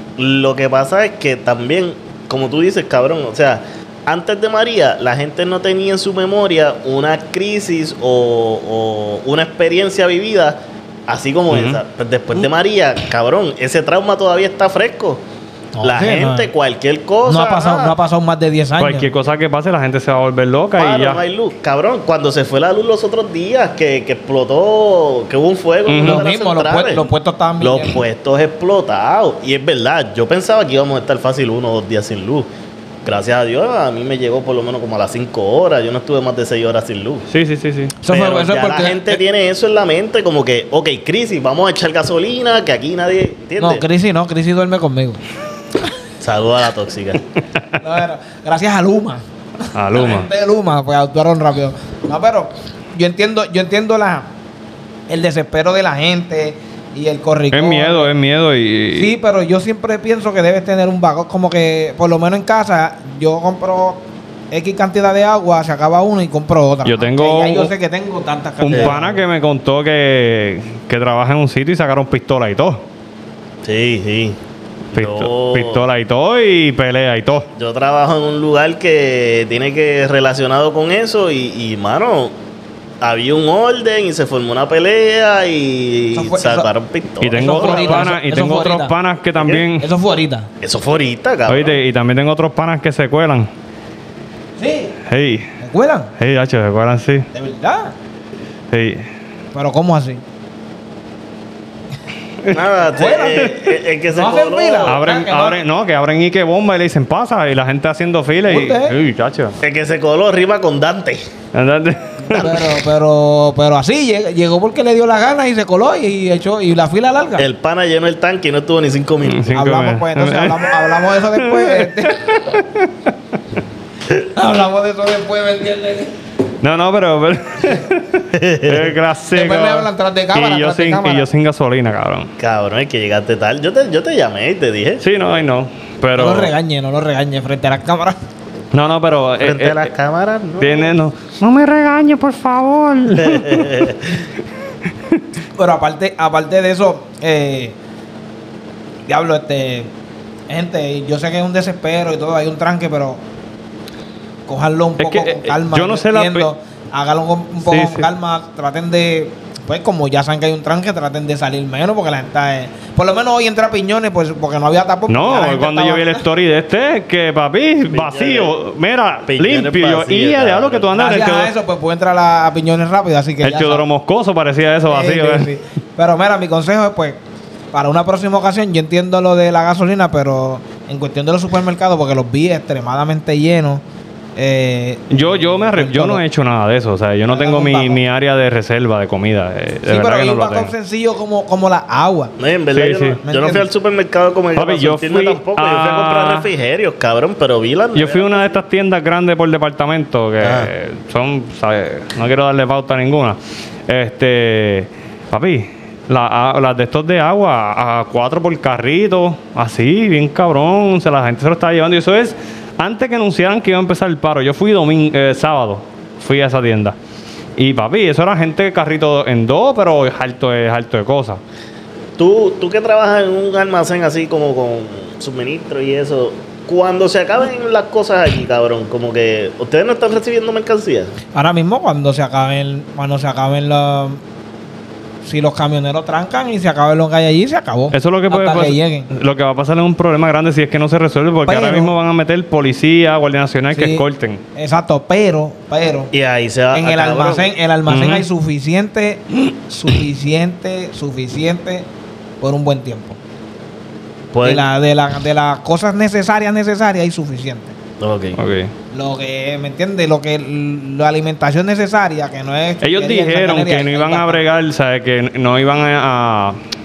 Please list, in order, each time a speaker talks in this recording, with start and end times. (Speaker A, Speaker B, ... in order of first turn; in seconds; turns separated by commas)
Speaker A: 0.2-15.2, Speaker B: 11.5-11.8, Speaker C: 15.8-16.5, Speaker A: 15.8-18.0, Speaker C: 17.2-19.1, Speaker B: 18.8-21.2, Speaker A: 20.8-27.1, Speaker B: 25.9-26.2, Speaker C: 26.0-28.0, Speaker A: 27.6-32.5, Speaker A: 33.0-37.2, Speaker B: 37.3-37.9, Speaker C: 38.0-39.2, Speaker A: 38.1-43.8, Speaker C: 43.6-45.2, Speaker A: 46.2-47.2, Speaker C: 47.8-49.2, Speaker B: 49.7-50.3, Speaker C: 49.9-54.3, Speaker C: 55.1-58.1, Speaker B: 57.5-59.1, Speaker C: 58.9-69.2, Speaker B: 66.8-67.7, Speaker B: 68.6-72.8, Speaker A: 73.6-74.4, Speaker A: 74.9-75.8, Speaker B: 74.9-77.5, Speaker A: 77.5-82.3, Speaker A: 83.0-88.0, Speaker C: 86.1-86.7, Speaker B: 87.2-89.8, Speaker C: 87.3-88.9, Speaker A: 89.4-89.6, Speaker C: 89.8-90.5, Speaker A: 90.6-91.8, Speaker B: 91.5-93.5, Speaker C: 94.6-95.0, Speaker B: 95.1-95.5, Speaker C: 95.6-96.1, Speaker B: 96.2-97.3, Speaker C: 97.3-97.9, Speaker B: 98.7-99.0, Speaker C: 99.5-100.2, Speaker A: 102.5-105.0, Speaker C: 102.8-103.6, Speaker C: 104.1-105.6, Speaker B: 104.8-109.5, Speaker C: 108.5-108.9, Speaker A: 109.6-111.2, Speaker B: 111.5-112.6, Speaker C: 112.3-117.5, Speaker A: 112.3-112.6, Speaker A: 117.4-119.6, Speaker B: 119.2-123.1, Speaker C: 119.5-122.2, Speaker C: 124.3-126.1, Speaker B: 126.6-132.3, Speaker A: 128.3-128.9, Speaker C: 129.3-131.3, Speaker A: 132.4-135.0, Speaker B: 135.0-136.5, Speaker C: 136.2-138.2, Speaker B: 138.7-139.9, Speaker A: 139.4-140.9, Speaker B: 140.6-143.9, Speaker A: 143.1-144.2, Speaker C: 145.6-147.8, Speaker C: 149.1-149.9, Speaker C: 150.5-153.2, Speaker C: 154.5-166.2, Speaker B: 155.0-156.5, Speaker B: 157.7-158.1, Speaker B: 165.1-171.5, Speaker A: 167.9-168.5, Speaker A: 169.2-170.9, Speaker C: 170.9-173.8, Speaker B: 173.4-175.5, Speaker C: 174.9-177.2, Speaker C: 177.7-183.8, Speaker C: 184.4-186.2, Speaker B: 185.1-190.7, Speaker C: 187.3-188.0, Speaker C: 189.9-192.3, Speaker A: 192.4-198.6, Speaker B: 192.7-193.2, Speaker C: 193.2-193.7, Speaker B: 194.6-196.5, Speaker B: 197.9-216.9, Speaker A: 200.4-200.7, Speaker B: 217.6-221.4, Speaker A: 222.2-231.1, Speaker C: 231.3-234.2, Speaker C: 235.2-239.1, Speaker B: 237.9-244.4, Speaker C: 241.4-241.9, Speaker C: 243.7-244.0, Speaker C: 244.5-246.1, Speaker A: 246.1-247.5, Speaker C: 246.7-251.8, Speaker B: 247.9-248.2, Speaker C: 252.4-253.2, Speaker A: 254.3-254.7, Speaker C: 254.4-257.7, Speaker A: 258.0-258.4, Speaker B: 258.4-258.7, Speaker C: 258.9-264.4, Speaker B: 262.8-266.6